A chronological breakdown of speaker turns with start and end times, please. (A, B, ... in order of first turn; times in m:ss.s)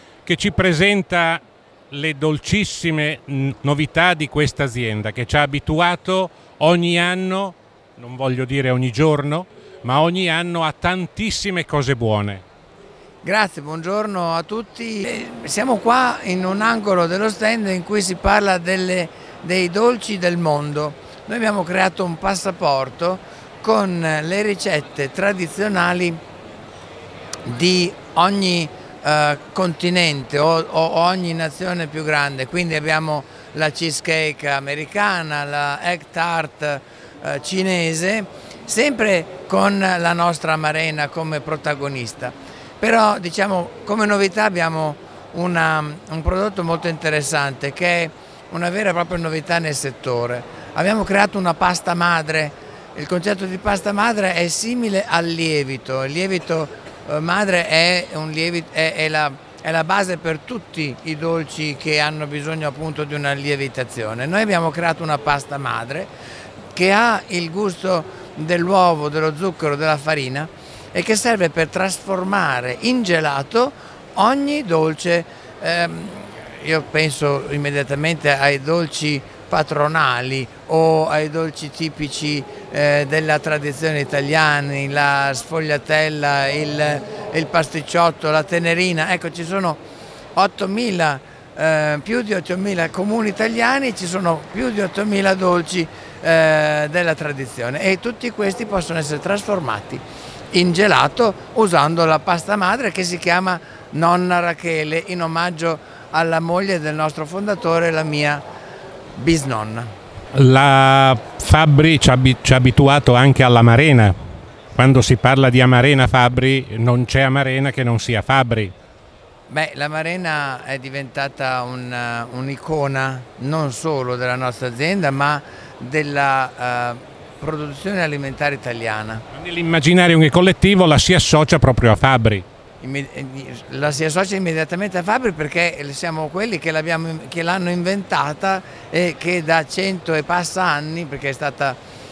0:00.2-0:12.4 A
0:13.2-0:26.2 B
0:27.4-1:06.1 B
1:06.7-1:29.8 B
1:30.4-1:48.4 B
1:49.2-1:49.9 B
1:50.3-1:54.2 A
1:54.8-1:58.7 A
1:59.5-2:09.2 B
2:09.3-2:12.4 A
2:12.8-2:21.8 B